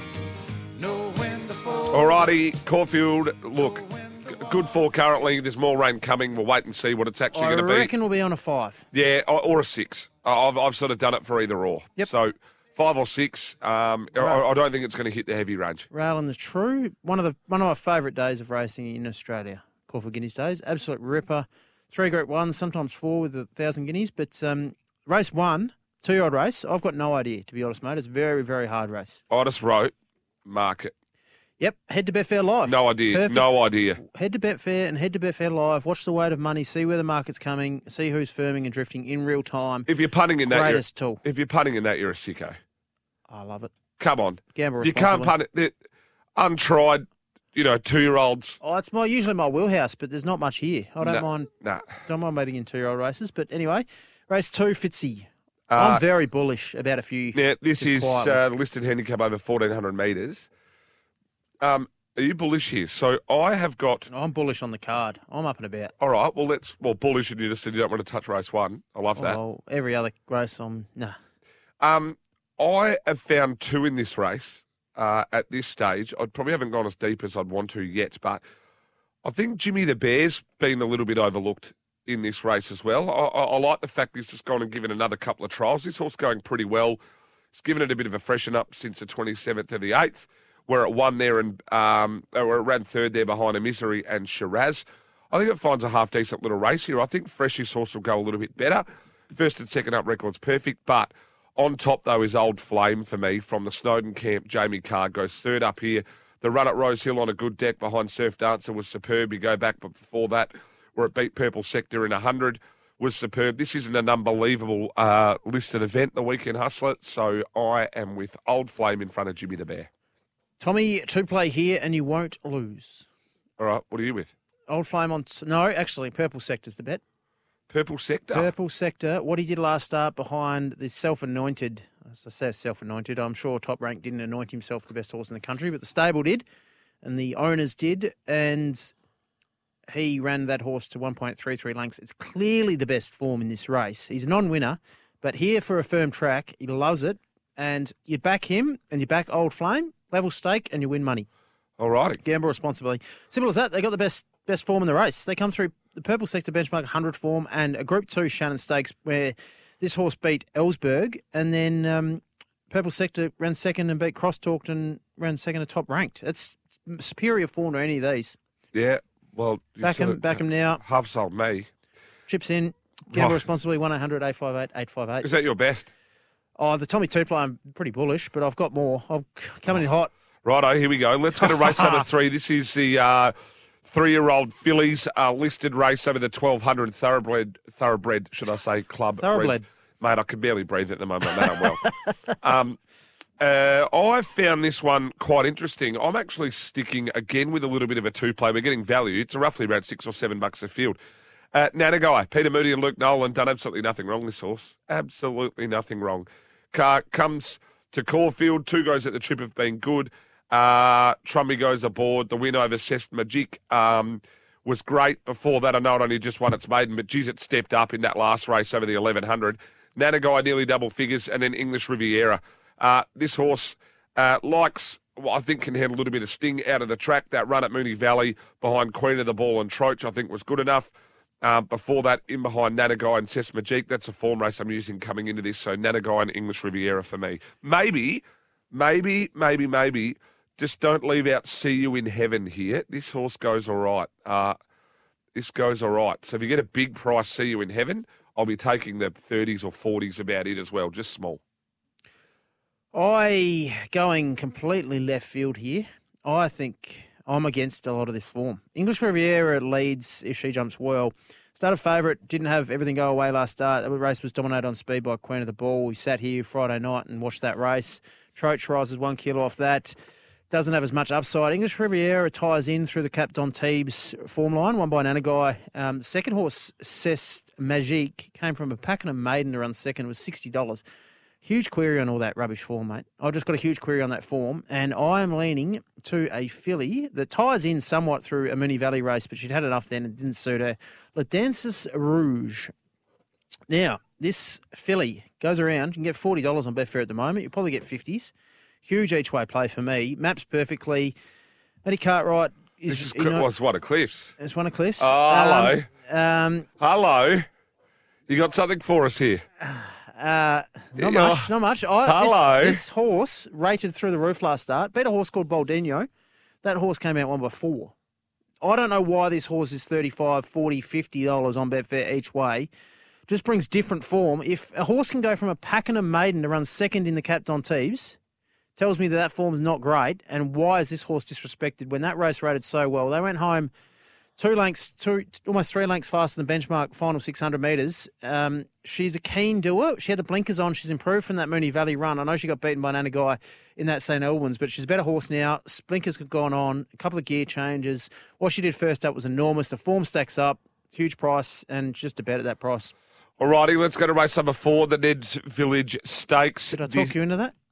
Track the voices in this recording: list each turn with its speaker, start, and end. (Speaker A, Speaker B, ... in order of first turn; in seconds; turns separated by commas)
Speaker A: 0.8-2.3, Speaker B: 1.9-7.9, Speaker A: 3.6-4.7, Speaker C: 7.3-8.8, Speaker B: 8.9-15.9, Speaker C: 15.9-29.2, Speaker B: 29.3-29.9, Speaker B: 30.4-30.9, Speaker C: 31.6-39.9, Speaker B: 32.6-34.0, Speaker B: 39.9-42.6, Speaker C: 40.4-41.2, Speaker C: 43.3-43.7, Speaker B: 44.0-45.7, Speaker C: 44.5-45.3, Speaker B: 46.4-48.6, Speaker C: 48.6-51.5, Speaker B: 51.0-52.0, Speaker C: 52.0-58.4, Speaker B: 55.7-56.0, Speaker B: 57.3-60.5, Speaker B: 61.6-64.1, Speaker C: 64.1-65.9, Speaker B: 66.0-69.4, Speaker C: 69.2-71.2, Speaker B: 71.8-78.4, Speaker B: 79.2-87.0, Speaker B: 87.5-119.9, Speaker C: 120.6-123.0, Speaker B: 123.6-124.3, Speaker C: 124.7-127.0, Speaker B: 127.7-128.5, Speaker C: 128.3-136.4, Speaker C: 137.0-138.9, Speaker C: 139.9-151.3, Speaker B: 151.8-152.2, Speaker C: 152.2-168.4, Speaker B: 168.7-171.7, Speaker C: 169.8-170.8, Speaker C: 172.3-175.3, Speaker B: 173.1-173.4, Speaker B: 175.2-175.9, Speaker C: 176.6-180.1, Speaker B: 180.4-183.3, Speaker C: 181.4-182.0, Speaker B: 183.8-191.9, Speaker C: 189.2-189.6, Speaker B: 192.4-192.8, Speaker B: 193.4-201.0, Speaker B: 201.5-244.6, Speaker B: 245.3-251.4, Speaker C: 252.9-269.9, Speaker C: 270.5-280.8, Speaker C: 281.4-292.7, Speaker C: 293.7-298.3, Speaker C: 298.8-301.1, Speaker C: 301.8-303.5, Speaker B: 302.9-304.4, Speaker C: 304.4-306.7, Speaker B: 305.0-305.9, Speaker B: 306.8-307.4, Speaker B: 308.3-309.4, Speaker C: 309.6-316.1, Speaker B: 310.9-311.5, Speaker B: 312.0-312.8, Speaker C: 316.6-317.9, Speaker C: 318.6-322.7, Speaker C: 323.3-328.2, Speaker C: 328.8-333.7, Speaker C: 334.4-352.9, Speaker B: 353.4-357.1, Speaker C: 356.7-357.5